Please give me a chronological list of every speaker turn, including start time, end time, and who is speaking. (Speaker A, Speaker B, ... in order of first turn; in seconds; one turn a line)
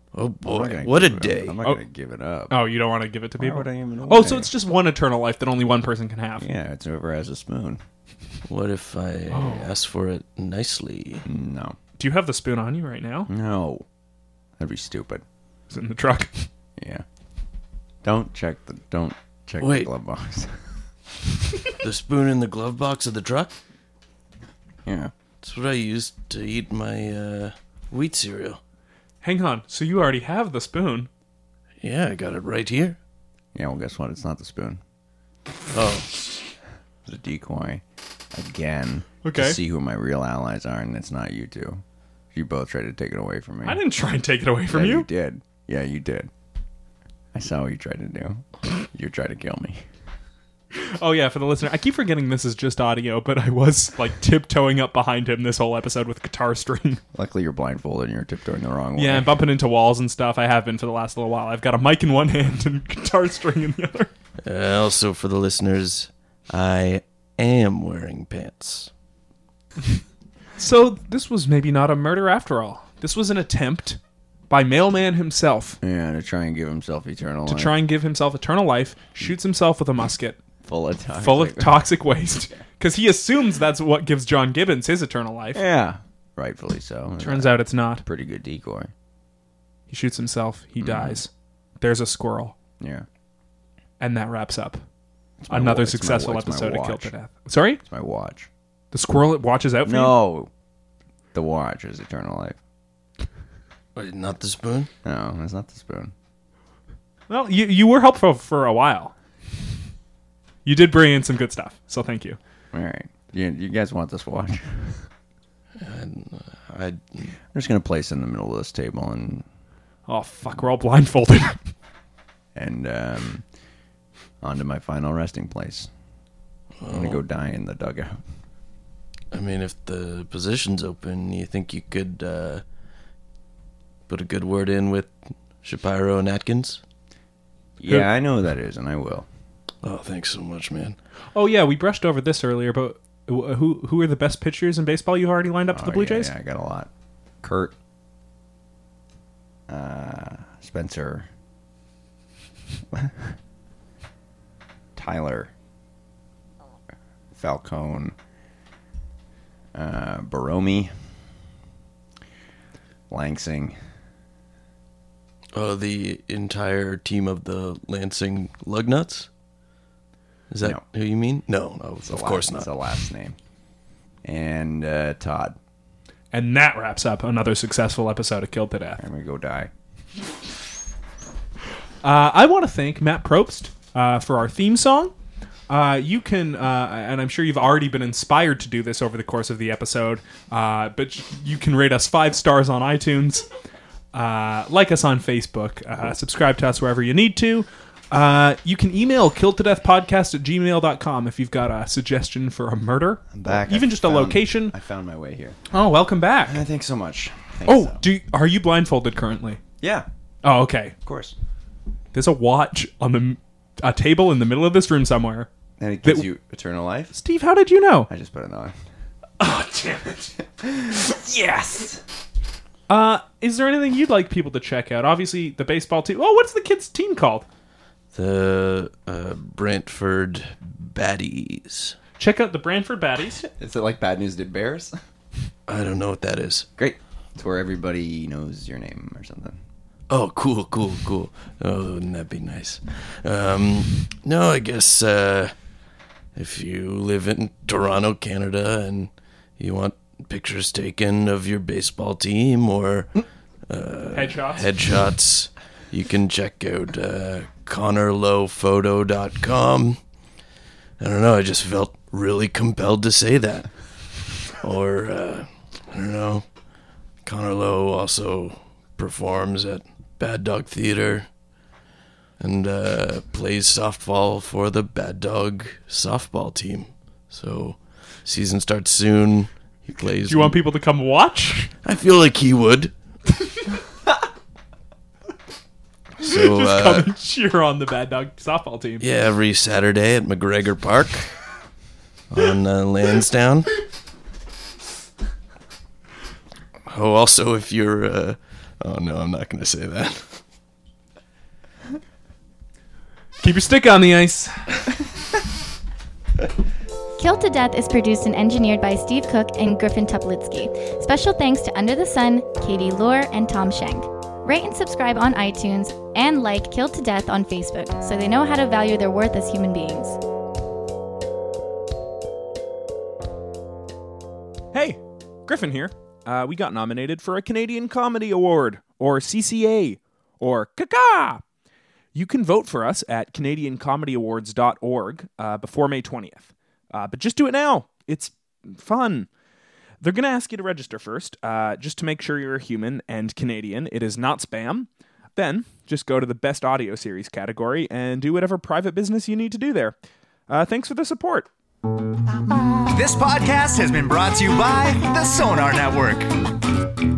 Speaker A: 0.1-1.6
Speaker B: 0.5-2.5
Speaker C: 2.5-6.5
Speaker B: 3.4-4.5
Speaker B: 6.4-7.8
Speaker A: 8.5-11.3
Speaker C: 9.3-9.7
Speaker B: 11.2-11.8
Speaker C: 12.0-13.3
Speaker B: 13.3-13.8
Speaker B: 14.6-15.2
Speaker C: 15.7-16.5
Speaker B: 16.8-17.1
Speaker B: 18.0-20.6
Speaker A: 19.6-19.9
Speaker A: 21.8-23.5
Speaker B: 24.9-25.1
Speaker A: 25.4-28.6
Speaker C: 29.2-31.1
Speaker A: 31.8-33.0
Speaker B: 33.5-34.8
Speaker A: 35.7-36.2
Speaker B: 37.1-37.8
Speaker B: 38.3-41.8
Speaker C: 39.2-39.6
Speaker B: 42.3-43.8
Speaker C: 43.6-45.1
Speaker B: 44.7-46.3
Speaker B: 47.3-49.8
Speaker C: 50.7-57.0
Speaker B: 57.1-59.4
Speaker C: 59.0-64.1
Speaker A: 64.4-68.9
Speaker C: 70.6-75.8
Speaker B: 75.8-77.8
Speaker C: 77.5-80.4
Speaker B: 80.6-81.8
Speaker C: 81.2-85.6
Speaker B: 85.5-88.9
Speaker C: 87.2-88.0
Speaker C: 89.9-92.5
Speaker B: 90.8-91.2
Speaker B: 92.8-93.1
Speaker C: 94.0-94.8
Speaker B: 95.4-97.1
Speaker C: 95.5-97.8
Speaker B: 97.8-98.5
Speaker C: 98.9-100.2
Speaker B: 99.8-100.5
Speaker B: 101.3-102.6
Speaker A: 104.0-104.9
Speaker B: 105.0-106.1
Speaker C: 107.3-109.1
Speaker C: 110.7-112.4
Speaker B: 112.7-115.1
Speaker A: 115.8-117.3
Speaker B: 117.5-119.5
Speaker C: 120.1-121.6
Speaker B: 122.5-123.4
Speaker B: 124.4-125.9
Speaker A: 126.8-127.2
Speaker B: 126.9-128.2
Speaker A: 129.3-132.6
Speaker A: 134.1-136.8
Speaker B: 137.8-139.3
Speaker A: 139.8-141.0
Speaker C: 141.3-146.3
Speaker B: 145.7-146.9
Speaker B: 147.4-147.7
Speaker B: 149.7-151.3
Speaker B: 152.9-153.4
Speaker B: 155.0-155.5
Speaker B: 157.3-158.2
Speaker B: 159.7-160.9
Speaker B: 163.1-163.8
Speaker A: 165.5-169.3
Speaker A: 170.5-172.7
Speaker B: 172.1-173.4
Speaker B: 174.2-175.6
Speaker C: 176.3-179.0
Speaker B: 179.0-179.7
Speaker C: 182.0-185.1
Speaker C: 185.7-193.5
Speaker C: 194.1-204.7
Speaker B: 203.3-205.6
Speaker C: 205.7-206.6
Speaker B: 206.5-208.0
Speaker C: 207.7-209.6
Speaker B: 209.8-210.1
Speaker C: 210.4-210.9
Speaker B: 211.1-211.3
Speaker C: 212.1-215.5
Speaker B: 215.8-217.2
Speaker C: 217.1-218.1
Speaker B: 218.1-218.8
Speaker B: 219.4-222.0
Speaker C: 222.9-227.5
Speaker A: 228.1-232.0
Speaker C: 232.2-233.4
Speaker B: 233.4-235.0
Speaker A: 235.7-236.7
Speaker B: 236.8-239.6
Speaker A: 240.1-245.5
Speaker A: 246.3-260.0
Speaker C: 254.1-254.7
Speaker A: 261.0-263.7
Speaker A: 264.6-266.5
Speaker A: 267.2-271.3
Speaker A: 272.4-280.6
Speaker C: 280.2-281.7
Speaker A: 281.8-282.9
Speaker A: 286.2-287.1
Speaker C: 286.2-289.1
Speaker A: 289.0-291.3
Speaker A: 292.3-293.7
Speaker A: 296.9-300.4
Speaker C: 303.4-304.9
Speaker D: 307.2-320.2
Speaker C: 324.7-331.4
Speaker C: 332.1-339.3
Speaker C: 340.0-349.9
Speaker C: 350.5-351.5
Speaker E: 352.9-356.3